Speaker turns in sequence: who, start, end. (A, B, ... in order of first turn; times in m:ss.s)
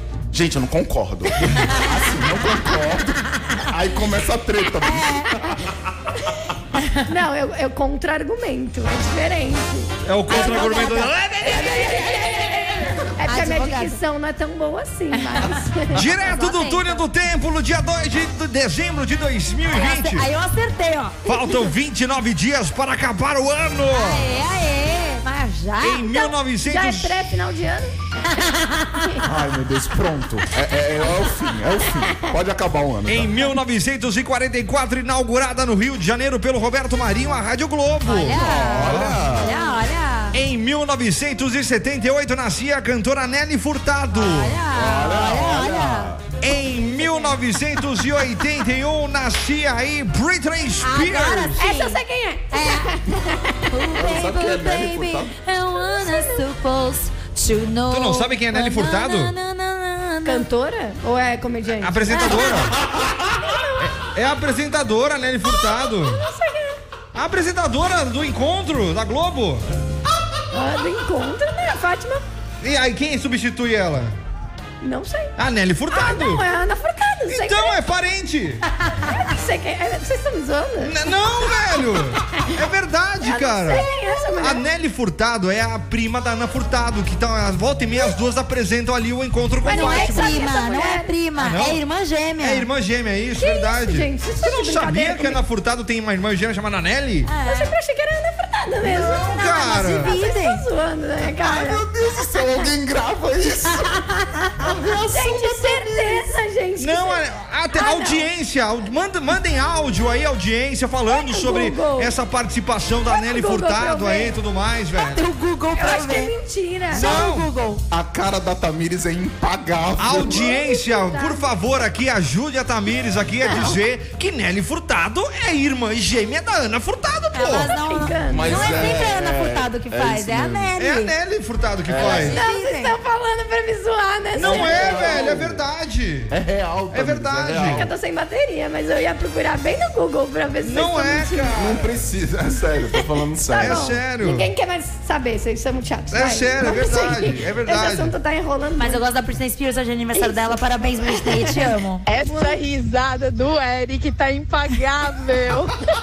0:00.3-0:05.6 A
0:04.8-0:05.3 B
0:06.8-0:07.0 B
0:07.1-0:10.8 C
0:10.0-0:11.9 D
0:10.3-0:11.9 B
0:11.4-0:16.0 C
0:13.2-0:14.0 B
0:15.1-0:17.0 B
0:15.9-0:20.2 D
0:19.7-0:21.3 B
0:21.2-0:24.3 D
0:23.9-0:26.0 B
0:25.8-0:27.2 D
0:26.0-0:27.9 C
0:28.3-0:29.1 B
0:29.2-0:33.4 A
0:33.1-0:39.2 D
0:38.0-0:40.4 B
0:38.3-0:39.7 A
0:40.3-0:44.6 D
0:44.1-0:46.1 B
0:44.7-0:46.3 A
0:46.4-0:51.6 D
0:50.8-0:52.0 B
0:51.6-0:53.7 C
0:52.5-0:52.9 B
0:53.7-1:00.4 B
0:53.9-0:55.3 A
0:55.8-0:56.4 C
0:57.9-0:59.3 D
1:00.2-1:03.9 C
1:01.8-1:02.8 D
1:03.8-1:06.2 D
1:05.4-1:06.8 C
1:07.1-1:09.6 D
1:10.5-1:12.2 C
1:12.6-1:14.2 D
1:14.8-1:15.3 C
1:15.4-1:16.4 D
1:15.9-1:17.8 C
1:17.3-1:18.6 D
1:19.0-1:21.8 C
1:20.8-1:23.9 D
1:23.2-1:24.6 C
1:24.4-1:30.4 D
1:29.6-1:31.1 C
1:29.6-1:32.6 B
1:31.4-1:31.8 D
1:32.4-1:37.3 D
1:33.4-1:35.4 C
1:37.3-1:37.7 B
1:37.4-1:41.8 C
1:38.9-1:40.2 D
1:38.9-1:40.6 B
1:41.4-1:44.0 A
1:44.6-1:46.2 A
1:45.0-1:47.2 C
1:46.8-1:55.2 D
1:47.7-1:48.2 C
1:51.1-1:52.1 C
1:53.1-1:54.3 C
1:55.0-1:56.3 B
1:55.8-1:57.1 C
1:56.9-1:57.8 B
1:56.9-1:57.5 D
1:57.9-2:00.5 A
2:00.0-2:07.7 D
2:00.1-2:01.5 C
2:07.3-2:11.1 B
2:07.7-2:09.0 C
2:08.3-2:10.7 A
2:10.8-2:12.4 D
2:11.8-2:12.4 A
2:12.0-2:15.4 C
2:12.0-2:12.9 B
2:14.3-2:16.3 D
2:14.4-2:15.6 A
2:16.3-2:17.9 A
2:16.9-2:17.9 D
2:17.6-2:21.5 C
2:20.6-2:22.0 D
2:21.5-2:24.0 A
2:23.4-2:29.0 C
2:23.6-2:24.5 D
2:26.1-2:28.1 D
2:28.8-2:32.0 B
2:30.1-2:32.6 C
2:32.0-2:35.8 E